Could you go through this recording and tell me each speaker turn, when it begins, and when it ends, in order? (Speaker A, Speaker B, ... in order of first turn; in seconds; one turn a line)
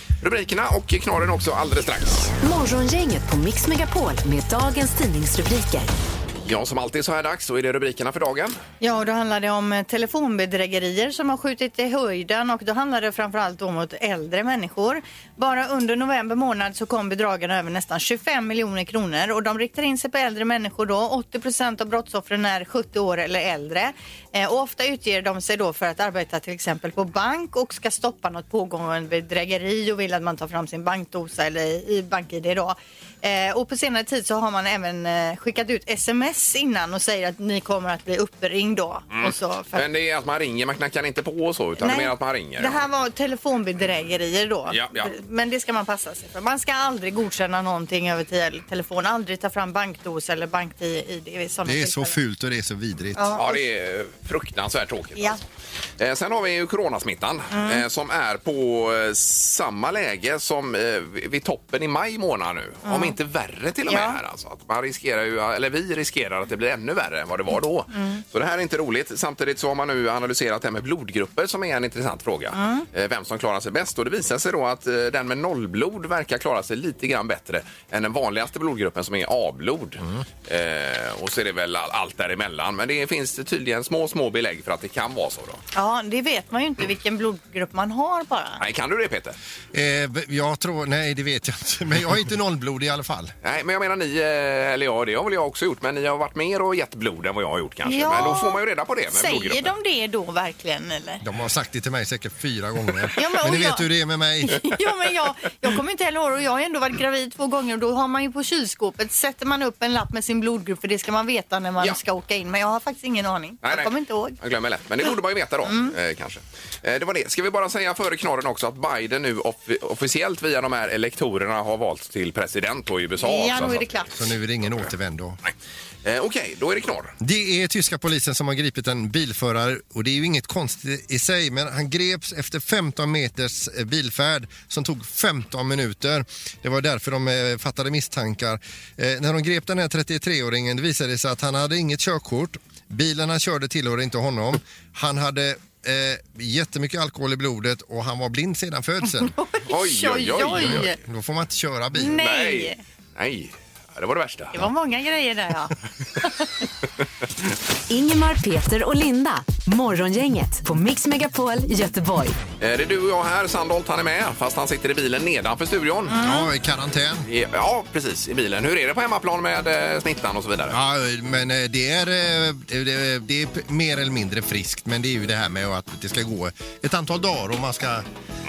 Speaker A: 0.2-2.3
Speaker B: 2.4-5.9
Speaker A: 6.4-8.6
Speaker C: 8.8-39.8
Speaker A: 39.1-42.8
Speaker C: 41.8-52.2
Speaker A: 44.7-45.1
Speaker D: 51.6-53.4
Speaker C: 53.1-53.6
Speaker A: 53.4-55.4
Speaker A: 56.0-85.6
Speaker C: 57.5-57.8
Speaker C: 62.9-63.1
Speaker C: 63.9-64.2
Speaker C: 67.9-68.2
Speaker C: 72.5-72.9
Speaker C: 85.8-88.6
Speaker A: 88.6-89.4
Speaker D: 89.7-93.3
Speaker A: 93.4-99.7
Speaker C: 97.8-98.6
Speaker C: 99.1-101.2
Speaker D: 101.2-104.8
Speaker C: 103.2-103.9
Speaker C: 104.4-114.4
Speaker A: 113.6-124.0
Speaker C: 115.6-115.9
Speaker C: 123.2-124.1
Speaker D: 124.2-125.4
Speaker A: 126.0-127.1
Speaker D: 127.2-149.3
Speaker C: 149.1-151.0
Speaker A: 149.7-150.9
Speaker D: 150.4-152.2
Speaker C: 151.9-152.8
Speaker A: 152.1-154.6
Speaker C: 154.5-156.5
Speaker B: 157.9-162.4
Speaker A: 162.6-166.2
Speaker C: 166.1-166.5
Speaker D: 166.2-167.3
Speaker A: 167.2-170.8
Speaker D: 170.7-178.1